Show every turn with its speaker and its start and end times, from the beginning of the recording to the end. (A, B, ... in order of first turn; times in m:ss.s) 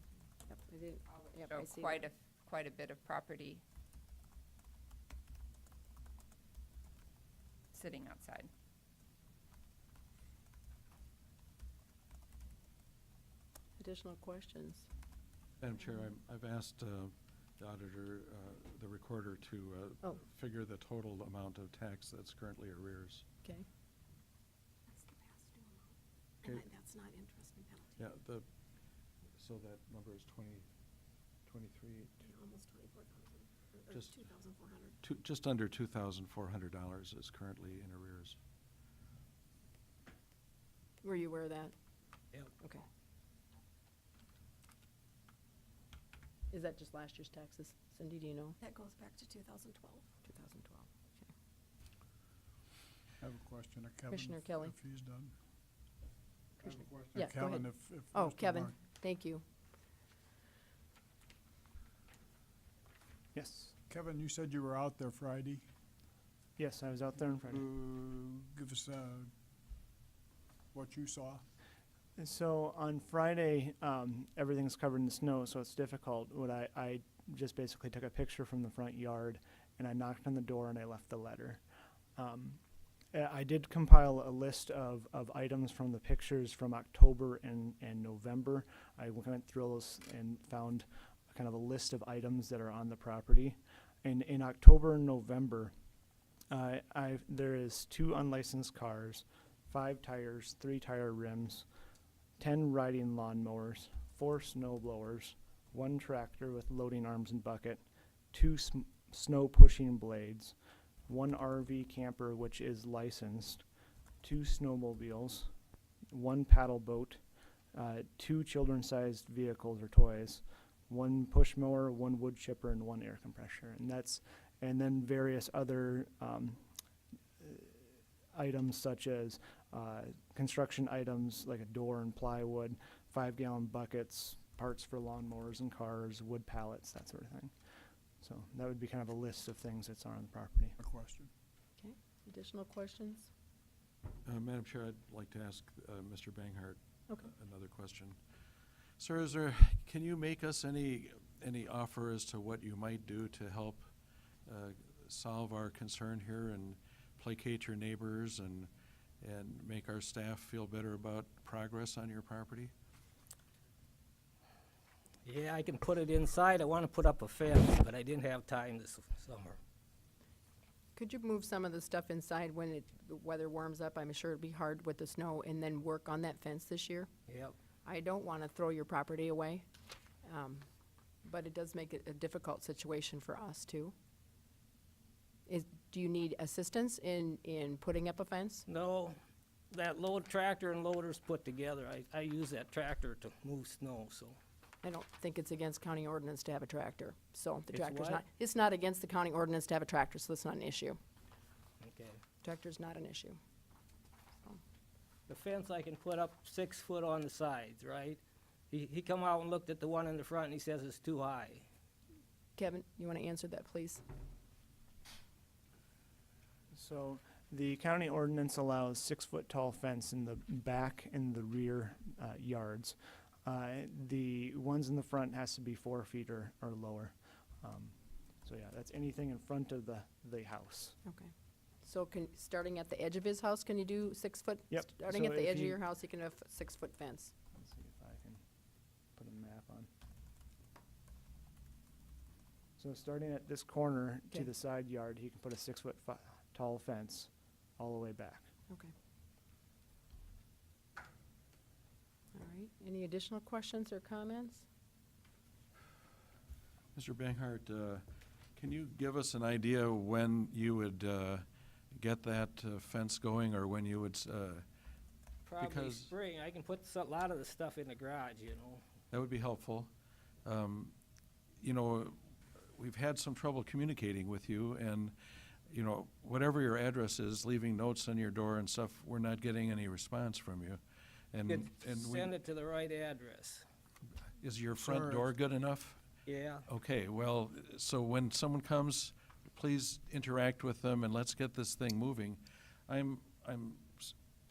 0:00.5-0:02.1 A
0:01.3-0:03.6 B
0:07.7-0:08.5 B
0:13.8-0:14.9 A
0:15.6-0:23.2 C
0:24.9-0:28.0 D
0:28.0-0:28.4 C
0:29.4-0:30.7 C
0:31.4-0:32.2 C
0:32.2-0:35.0 D
0:33.9-0:34.2 C
0:35.0-0:38.4 C
0:41.0-0:41.7 A
0:46.5-0:48.6 A
0:48.6-0:50.0 D
0:50.2-0:50.9 A
0:53.2-0:55.3 E
0:54.1-0:54.7 A
0:56.6-0:59.4 A
0:56.6-0:58.8 E
1:03.3-1:03.7 F
1:03.9-1:05.6 E
1:06.6-1:07.7 F
1:07.5-1:09.3 E
1:10.7-1:11.4 E
1:12.2-1:21.6 F
1:22.2-1:22.6 F
1:23.1-1:35.7 F
1:36.5-1:41.6 F
1:42.4-1:50.5 F
1:51.1-1:53.6 F
1:54.2-1:55.5 F
1:56.1-1:57.2 F
1:57.7-2:06.6 F
2:07.4-2:07.7 F
2:08.3-2:17.5 F
2:18.2-2:20.7 F
2:20.8-2:21.3 E
2:21.8-2:23.3 A
2:24.2-2:28.2 C
2:29.0-2:33.9 C
2:34.4-2:38.7 C
2:39.2-2:42.7 C
2:45.2-2:49.6 G
2:51.0-2:57.1 A
2:57.3-2:57.5 G
2:57.8-2:59.6 A
3:00.2-3:00.7 A
3:01.2-3:03.9 A
3:05.4-3:08.6 A
3:08.7-3:09.1 G
3:09.7-3:14.4 G
3:14.8-3:21.0 A
3:17.7-3:18.2 G
3:21.8-3:22.2 G
3:22.4-3:23.4 A
3:25.3-3:31.6 G
3:32.6-3:34.0 A
3:36.7-3:51.0 F
3:51.0-3:51.3 A
3:51.8-3:57.3 A
3:54.7-3:55.8 F
3:57.5-3:58.4 F
3:59.2-3:59.9 F
4:02.8-4:08.5 F
4:12.3-4:14.6 A
4:16.9-4:18.0 C
4:18.6-4:24.6 C
4:25.4-4:28.8 G
4:25.6-4:26.1 C
4:29.1-4:29.9 C
4:30.4-4:30.9 C
4:31.6-4:32.2 C
4:32.7-4:35.1 C
4:35.7-4:40.8 C
4:41.3-4:42.4 C
4:41.5-4:43.6 G
4:44.4-4:46.0 C
4:44.8-4:45.2 E
4:46.2-4:46.6 G
4:46.6-4:54.1 C